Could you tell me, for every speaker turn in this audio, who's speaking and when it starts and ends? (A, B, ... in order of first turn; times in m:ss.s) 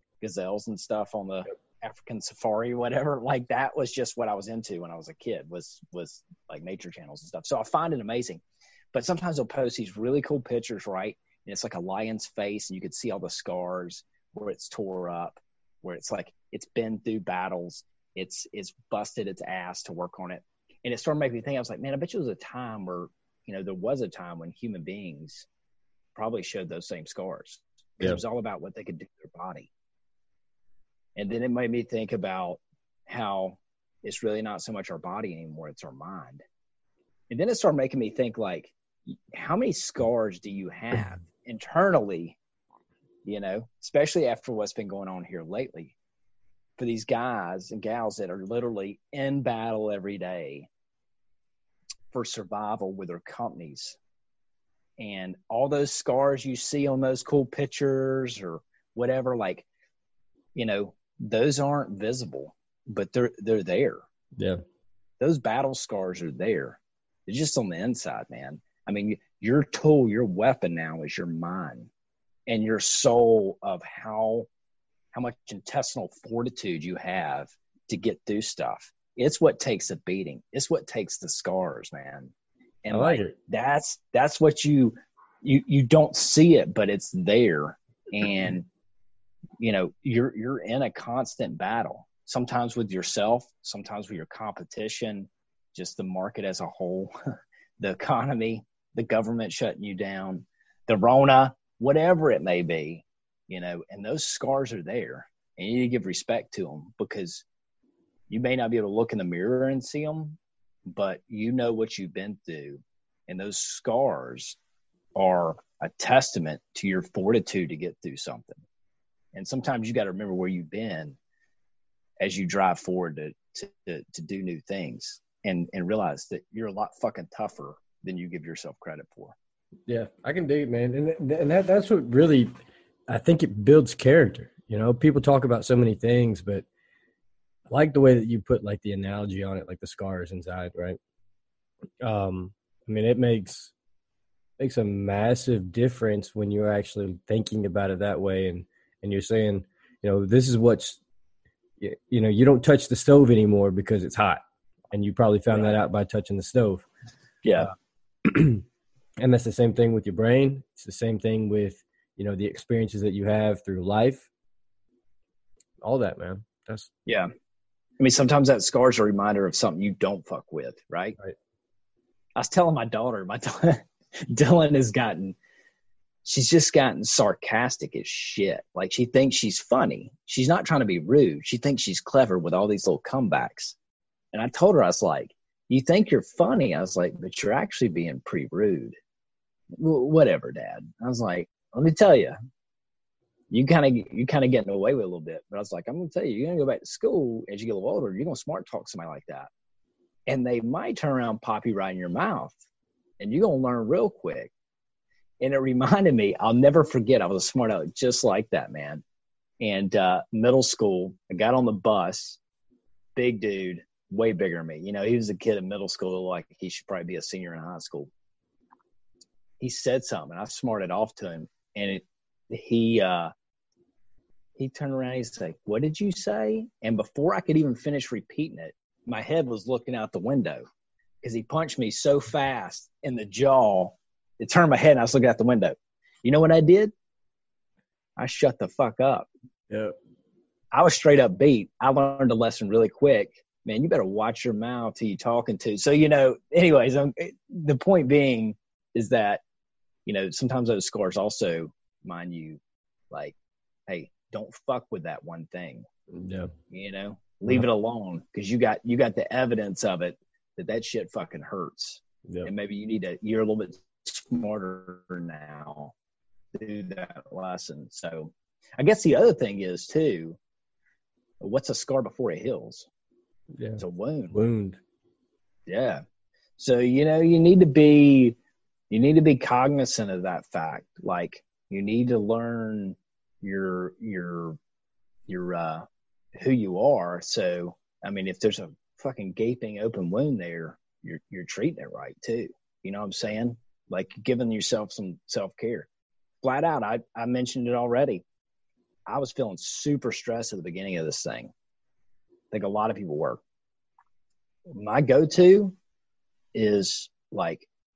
0:00.2-0:08.4 A
0:08.9-0:25.5 A
0:26.2-0:29.7 A
0:31.2-0:36.4 A
0:37.3-0:38.8 A
0:39.3-0:42.4 A
0:43.2-0:46.0 A
0:46.8-0:50.7 A
0:52.1-0:54.0 A
0:55.0-0:59.7 A
1:00.6-1:04.0 A
1:05.2-1:11.9 A
1:12.5-1:14.5 A
1:15.1-1:22.3 A
1:22.8-1:28.7 A
1:22.9-1:23.4 B
1:29.6-1:37.1 A
1:37.8-1:47.4 A
1:48.3-1:50.4 A
1:50.9-1:54.6 A
1:55.2-1:58.6 A
1:59.3-2:01.2 A
2:02.2-2:09.4 A
2:09.9-2:12.5 B
2:13.1-2:16.6 B
2:17.7-2:21.0 B
2:22.0-2:23.7 B
2:24.6-2:31.0 B
2:31.8-2:36.9 B
2:35.5-2:35.8 A
2:37.4-2:37.7 A
2:38.2-2:38.6 B
2:39.2-2:44.3 B
2:45.8-2:46.9 B
2:48.0-2:51.2 A
2:52.4-2:55.4 A
2:56.2-3:03.8 A
3:04.3-3:09.0 A
3:09.8-3:12.4 A
3:13.5-3:19.5 A
3:20.3-3:22.6 A
3:23.2-3:24.5 A
3:25.4-3:29.0 A
3:29.6-3:32.4 A
3:33.2-3:38.1 A
3:39.6-3:43.3 A
3:44.6-3:50.6 A
3:51.2-3:56.9 A
3:58.2-3:59.3 A
3:59.7-4:00.0 B
4:00.7-4:09.4 A
4:10.1-4:12.6 A
4:13.1-4:13.4 A
4:13.9-4:15.9 A
4:16.1-4:16.5 B
4:16.7-4:25.9 A
4:26.5-4:30.4 A
4:31.4-4:32.9 A
4:33.6-4:34.8 B
4:33.8-4:34.4 A
4:35.7-4:36.0 A
4:36.6-4:38.4 A
4:38.9-4:44.6 A
4:45.3-4:55.9 A
4:56.4-4:58.2 A
4:59.1-5:01.5 A
5:02.5-5:03.4 A
5:04.7-5:05.8 A
5:06.5-5:07.7 A